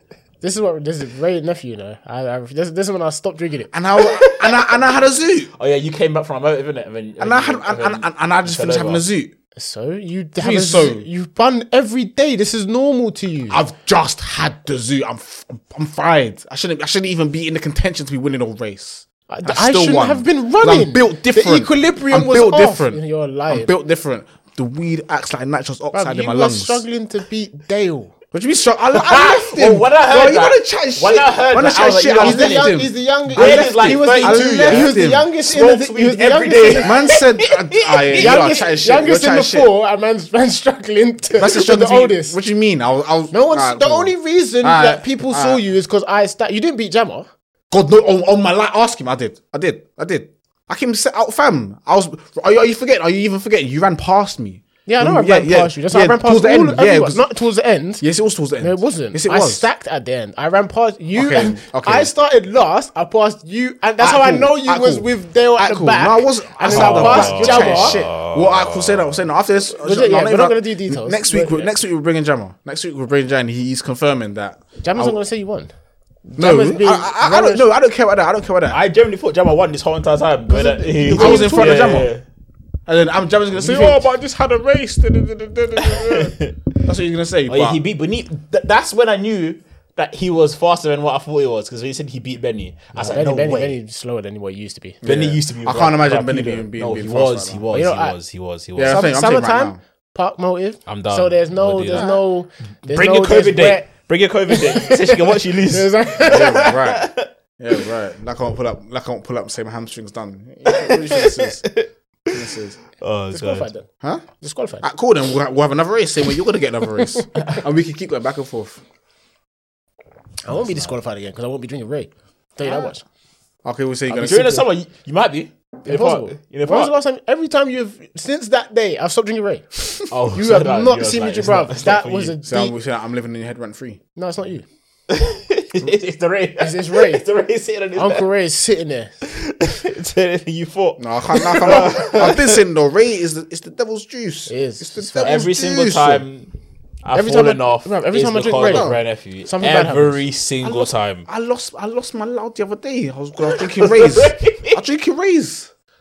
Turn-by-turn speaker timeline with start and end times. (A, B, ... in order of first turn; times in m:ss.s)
0:00.4-0:03.7 A
0:03.7-0:05.5 B
0:04.0-0:04.8 C
0:05.5-0:09.0 C
0:07.2-0:09.3 B
0:09.6-0:13.6 A
0:10.4-0:11.1 B
0:13.5-0:26.8 B
0:19.3-0:23.7 A
0:25.9-0:28.1 A
0:28.3-0:35.3 B
0:28.9-0:38.7 C
0:32.1-0:37.1 A
0:36.8-0:39.7 B
0:38.2-0:42.4 A
0:41.3-0:45.6 B
0:43.3-0:47.3 A
0:47.7-0:57.2 B
0:54.8-0:58.0 A
0:58.0-0:59.6 B
0:58.6-1:08.0 A
1:01.1-1:02.1 B
1:04.0-1:15.2 B
1:06.6-1:09.2 C
1:09.8-1:11.7 A
1:14.8-1:15.7 A
1:16.2-1:17.7 A
1:16.4-1:18.8 B
1:18.7-1:22.2 C
1:20.5-1:22.0 A
1:20.9-1:22.1 B
1:22.8-1:27.8 B
1:25.8-1:26.6 C
1:27.5-1:33.8 C
1:33.0-1:35.0 A
1:35.0-1:37.6 B
1:35.0-1:39.0 C
1:37.7-1:38.2 A
1:38.8-1:39.8 B
1:38.8-1:43.9 A
1:40.9-1:42.2 C
1:41.9-1:42.2 B
1:42.9-1:47.3 C
1:44.5-1:46.7 A
1:46.2-1:51.6 B
1:50.7-1:52.4 C
1:52.3-1:52.8 B
1:53.0-1:53.7 C
1:53.3-1:53.9 A
1:54.4-1:54.8 A
1:54.8-1:58.8 B
2:00.4-2:03.0 A
2:00.5-2:00.9 C
2:03.6-2:04.7 B
2:04.1-2:06.9 C
2:05.8-2:12.7 A
2:10.1-2:12.4 C
2:12.4-2:14.0 B
2:14.2-2:14.6 A
2:15.1-2:18.2 C
2:16.6-2:17.2 A
2:17.9-2:19.1 A
2:19.2-2:22.6 C
2:21.0-2:26.2 B
2:24.5-2:25.4 A
2:25.2-2:31.3 C
2:27.1-2:30.2 A
2:28.6-2:29.0 B
2:30.6-2:35.7 B
2:33.4-2:34.8 C